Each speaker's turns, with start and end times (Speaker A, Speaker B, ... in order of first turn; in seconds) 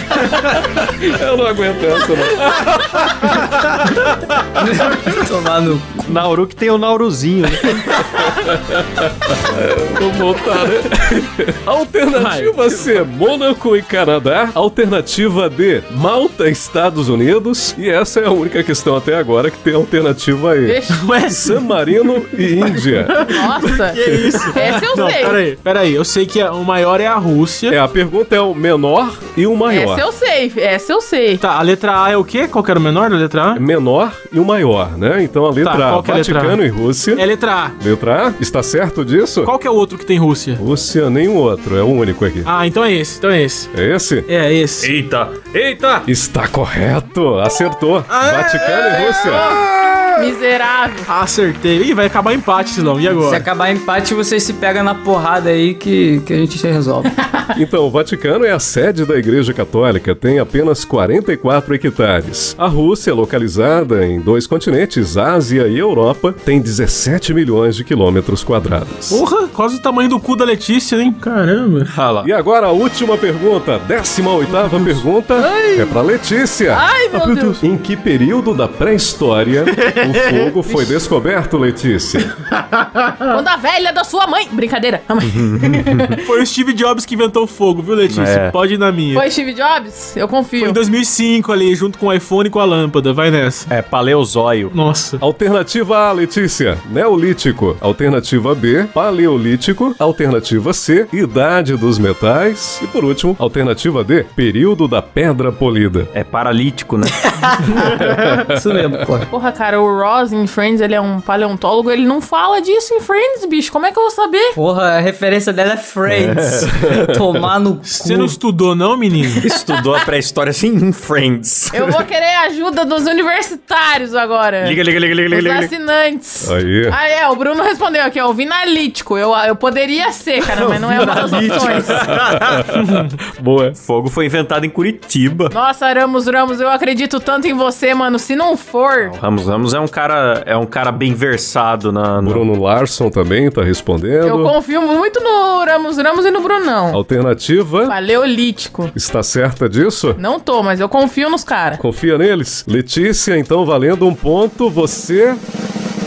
Speaker A: 0.9-3.5, 8.1-23.3, 24.0-24.5, 27.7-30.1, 33.5-37.2, 37.8-39.5, 40.6-42.5, 43.7-44.3, 46.1-49.6, 57.5-69.2, 72.2-82.3, 95.2-106.1, 108.0-109.0, 116.8-117.4, 126.4-127.0, 132.4-133.8, 142.2-144.5, 146.9-148.0, 148.9-150.2, 151.8-155.4
Speaker B: 4.6-6.1, 53.2-57.1, 107.2-109.3, 114.5-118.3
Speaker C: 6.0-8.0, 44.8-46.1, 71.9-72.3, 85.2-86.2, 88.1-88.6, 93.7-94.7, 106.1-107.3, 116.1-117.0, 119.4-122.0, 124.6-125.7, 130.6-132.7, 133.8-135.6, 139.0-142.5
Speaker D: 12.2-13.0, 20.9-21.6, 23.1-27.8, 31.4-33.6, 35.6-36.6, 37.1-37.8, 39.4-40.6, 42.5-43.7, 44.3-44.9, 48.1-49.4, 51.1-53.5, 69.1-71.9, 74.7-75.0, 86.2-89.3, 90.6-93.7, 94.7-95.2, 117.8-119.5, 132.7-133.1
Speaker E: 20.6-21.0, 23.3-24.0, 24.5-25.4, 29.7-31.4, 49.2-51.1, 75.6-75.9, 76.7-77.6, 83.3-86.2, 89.1-90.8, 109.3-114.6, 121.7-132.1, 135.5-139.2, 144.2-147.0, 147.9-148.9, 150.2-151.8